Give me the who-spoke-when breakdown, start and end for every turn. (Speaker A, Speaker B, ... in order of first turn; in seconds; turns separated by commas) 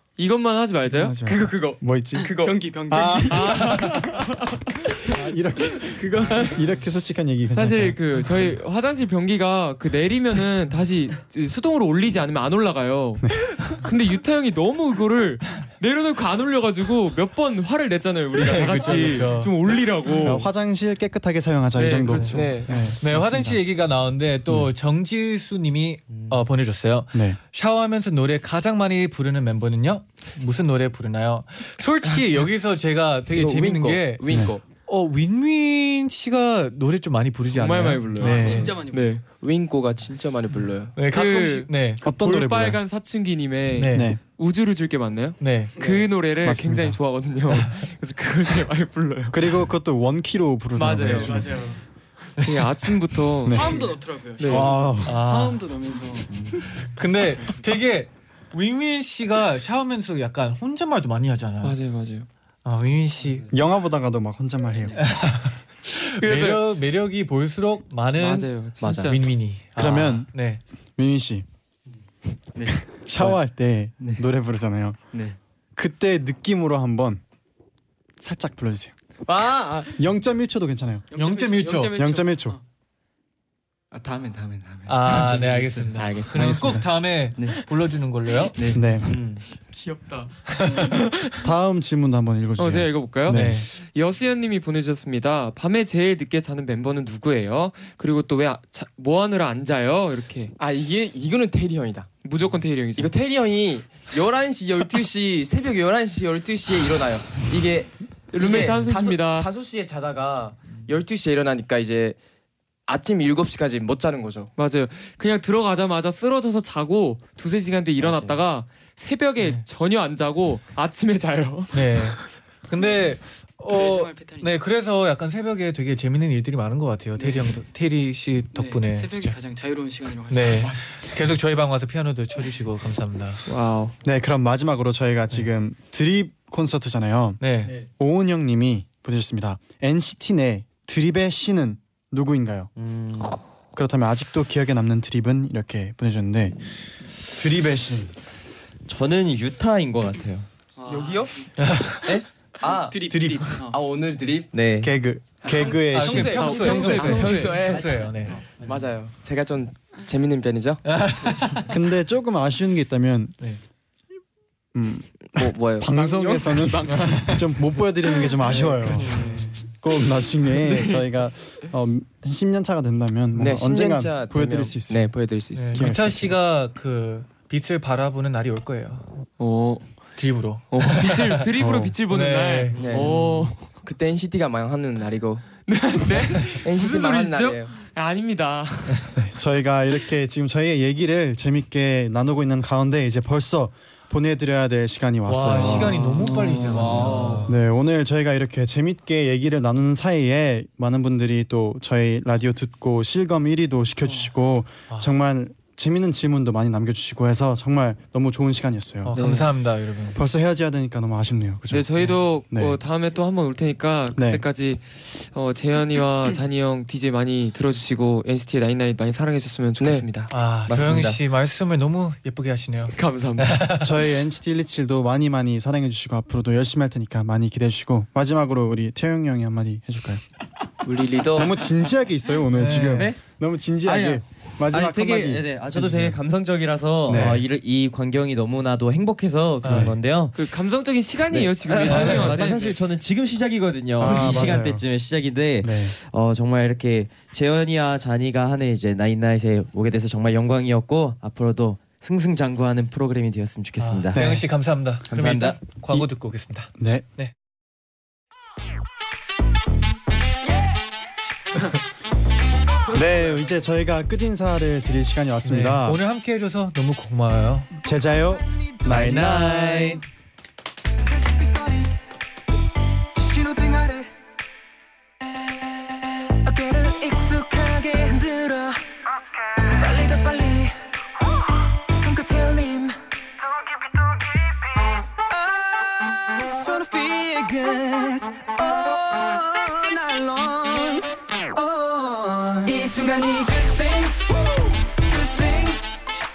Speaker A: 0.2-1.2, Speaker B: 0.8-3.8, Speaker C: 1.2-2.6, Speaker D: 2.3-3.9, Speaker A: 3.3-4.5, Speaker B: 5.0-8.0, Speaker D: 6.0-6.6, Speaker C: 6.1-6.3, Speaker A: 7.5-20.5, Speaker B: 13.2-13.5, Speaker E: 18.4-19.5, Speaker B: 20.2-23.6, Speaker A: 21.7-22.9, Speaker C: 22.3-22.9, Speaker E: 23.0-38.7, Speaker B: 27.1-27.4, Speaker C: 33.3-34.6, Speaker B: 34.3-34.5, Speaker A: 37.5-39.2, Speaker D: 38.2-39.2, Speaker C: 39.2-41.0, Speaker E: 40.9-42.0, Speaker A: 41.1-49.4, Speaker B: 42.0-42.8, Speaker E: 43.8-44.2, Speaker B: 43.9-44.2, Speaker E: 45.4-45.7, Speaker D: 45.8-46.1, Speaker B: 46.4-47.0, Speaker B: 49.3-51.5, Speaker A: 50.8-51.3, Speaker D: 51.0-51.8, Speaker A: 52.4-53.8, Speaker B: 53.4-55.2, Speaker D: 53.5-57.6, Speaker A: 54.4-54.7, Speaker E: 55.0-55.6, Speaker E: 56.8-61.8, Speaker A: 61.6-62.3, Speaker E: 62.6-63.5, Speaker B: 63.5-65.1, Speaker E: 65.0-70.6, Speaker A: 66.2-66.7, Speaker A: 68.2-69.2, Speaker F: 68.8-69.2, Speaker B: 69.8-70.3, Speaker B: 71.0-71.5, Speaker G: 72.5-73.4, Speaker B: 72.7-75.0, Speaker G: 74.0-74.2, Speaker G: 75.1-75.4, Speaker B: 75.8-77.2, Speaker B: 78.2-78.9, Speaker C: 79.3-80.0, Speaker B: 79.9-81.0, Speaker D: 81.1-82.6, Speaker E: 81.2-82.0, Speaker B: 82.0-82.6, Speaker G: 83.9-86.0, Speaker E: 84.8-88.6, Speaker C: 86.0-86.7, Speaker B: 86.3-86.8, Speaker G: 88.5-89.4, Speaker B: 88.7-89.1, Speaker A: 89.7-91.4, Speaker E: 90.5-90.9, Speaker B: 91.4-93.6, Speaker A: 92.6-100.5, Speaker E: 93.3-93.7, Speaker C: 100.6-102.2, Speaker A: 102.2-103.1, Speaker C: 103.0-112.2, Speaker A: 108.3-109.5, Speaker C: 112.9-114.5, Speaker A: 114.6-122.2, Speaker F: 118.0-118.4, Speaker E: 119.4-119.6, Speaker E: 121.7-129.3, Speaker D: 122.8-123.1, Speaker D: 123.7-124.6, Speaker D: 127.2-127.5, Speaker D: 128.5-131.1, Speaker E: 130.3-133.4, Speaker A: 133.5-133.9, Speaker B: 134.0-142.7, Speaker E: 137.4-137.7, Speaker F: 142.8-143.4, Speaker B: 143.7-148.1, Speaker F: 148.9-150.5, Speaker D: 150.8-151.6, Speaker C: 150.8-151.5, Speaker E: 151.6-152.1, Speaker F: 152.0-152.2, Speaker C: 152.0-153.0, Speaker D: 152.9-153.8, Speaker B: 153.1-153.5, Speaker C: 153.6-154.5, Speaker F: 154.5-154.9, Speaker B: 154.8-156.8, Speaker C: 155.4-160.9, Speaker E: 155.9-158.4, Speaker A: 156.0-157.6, Speaker E: 160.8-161.7, Speaker B: 161.7-163.3, Speaker B: 164.7-175.1, Speaker C: 165.3-165.9, Speaker D: 165.9-167.5, Speaker E: 167.1-167.4, Speaker D: 168.3-168.7, Speaker E: 168.5-169.6, Speaker C: 168.5-169.4, Speaker C: 173.4-176.2, Speaker E: 175.5-179.1, Speaker B: 175.7-176.3, Speaker A: 179.4-179.9, Speaker E: 180.2-181.5, Speaker A: 180.7-183.7, Speaker B: 181.6-181.9, Speaker E: 182.1-183.5, Speaker C: 182.7-185.6, Speaker A: 185.7-189.2, Speaker C: 186.5-187.7, Speaker B: 189.2-196.9, Speaker E: 195.2-197.5, Speaker F: 195.6-197.5, Speaker B: 197.4-209.2, Speaker E: 204.9-205.1, Speaker E: 209.0-210.2, Speaker A: 209.1-209.5, Speaker B: 210.1-212.8, Speaker A: 211.7-220.3, Speaker B: 214.1-214.4, Speaker C: 219.8-220.1, Speaker E: 220.3-223.9, Speaker F: 220.6-221.2, Speaker A: 222.9-223.6, Speaker B: 223.8-230.2, Speaker C: 230.8-231.6, Speaker B: 231.3-236.1, Speaker E: 232.5-233.1, Speaker F: 232.9-233.2, Speaker F: 233.8-240.4, Speaker B: 237.1-237.4, Speaker E: 239.6-239.9, Speaker B: 239.7-239.9, Speaker A: 240.3-242.8, Speaker F: 241.3-254.3, Speaker E: 241.8-242.4, Speaker B: 241.9-242.2, Speaker B: 244.0-244.8, Speaker E: 244.1-244.7, Speaker B: 245.6-245.9, Speaker E: 253.8-257.3, Speaker B: 254.1-254.5, Speaker F: 255.0-255.8, Speaker B: 256.8-257.1, Speaker B: 262.9-266.0, Speaker E: 265.4-267.7, Speaker B: 267.8-270.0, Speaker F: 268.9-270.0, Speaker H: 271.2-271.8, Speaker H: 273.2-274.1, Speaker H: 276.4-278.8, Speaker H: 279.6-280.8, Speaker H: 281.9-283.0, Speaker H: 285.3-295.9